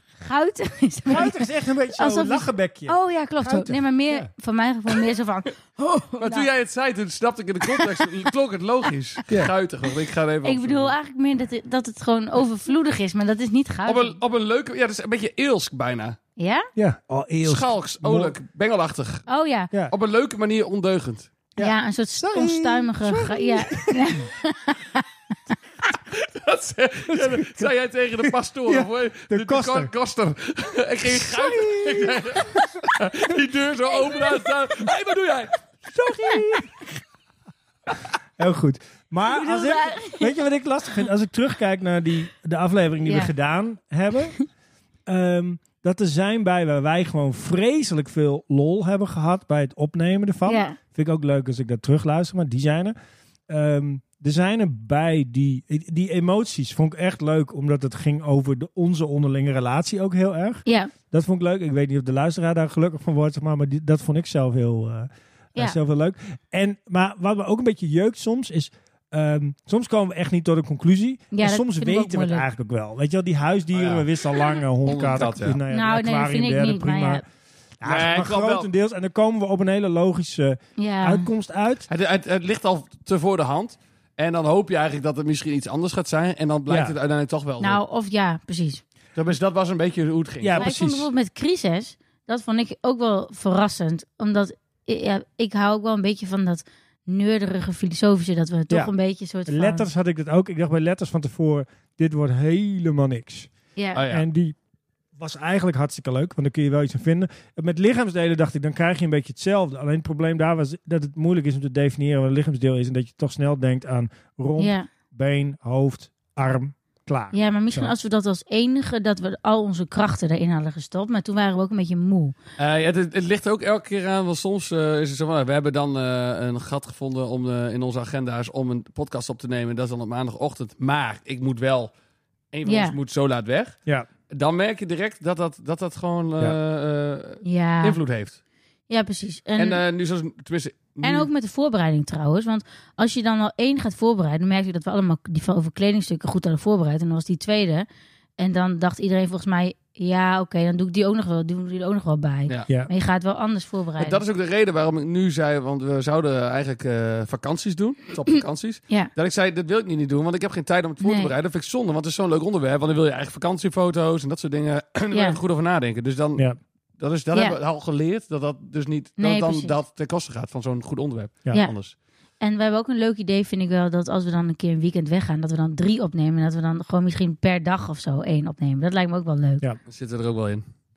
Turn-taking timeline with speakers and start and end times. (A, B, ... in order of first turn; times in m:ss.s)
0:00.2-0:06.5 A
0:01.1-0:04.3 B
0:06.2-0:10.9 C
0:10.4-0:14.2 A
0:13.9-0:16.2 C
0:16.4-0:16.7 A
0:16.8-0:18.3 B
0:17.4-0:19.3 C
0:19.3-0:19.7 A
0:19.9-0:21.3 C
0:21.6-0:24.3 B
0:21.6-0:25.0 A
0:26.1-0:36.6 C
0:27.1-0:27.7 B
0:28.2-0:29.9 B
0:31.1-0:32.4 B
0:36.0-0:36.7 B
0:38.4-0:44.4 B
0:39.3-0:40.3 A
0:43.0-0:43.3 A
0:45.1-0:53.0 B
0:50.5-0:50.8 A
0:53.5-1:17.2 B
1:00.7-1:00.9 A
1:11.3-1:12.5 A
1:13.7-1:15.6 C
1:15.7-1:17.2 A
1:17.8-1:21.9 B
1:17.8-1:18.7 C
1:20.8-1:21.3 A
1:21.9-1:27.8 C
1:26.7-1:27.0 B
1:27.6-1:28.8 A
1:29.2-1:30.6 C
1:30.4-1:31.1 B
1:30.6-1:39.9 A
1:39.5-1:43.5 B
1:44.0-1:44.3 C
1:44.1-1:44.6 B
1:45.2-1:57.9 B
1:54.6-1:54.9 A
1:57.3-2:02.4 A
2:02.6-2:11.9 C
2:12.5-2:13.8 C
2:12.7-2:13.0 A
2:14.3-2:18.4 C
2:17.4-2:18.0 A
2:18.9-2:19.8 A
2:19.6-2:21.3 C
2:21.0-2:27.9 A
2:28.4-2:34.2 A
2:34.0-2:51.9 C
2:41.0-2:41.3 A
2:45.1-2:45.4 A
2:49.2-2:49.8 A
2:52.4-2:59.6 A
2:59.9-3:00.6 C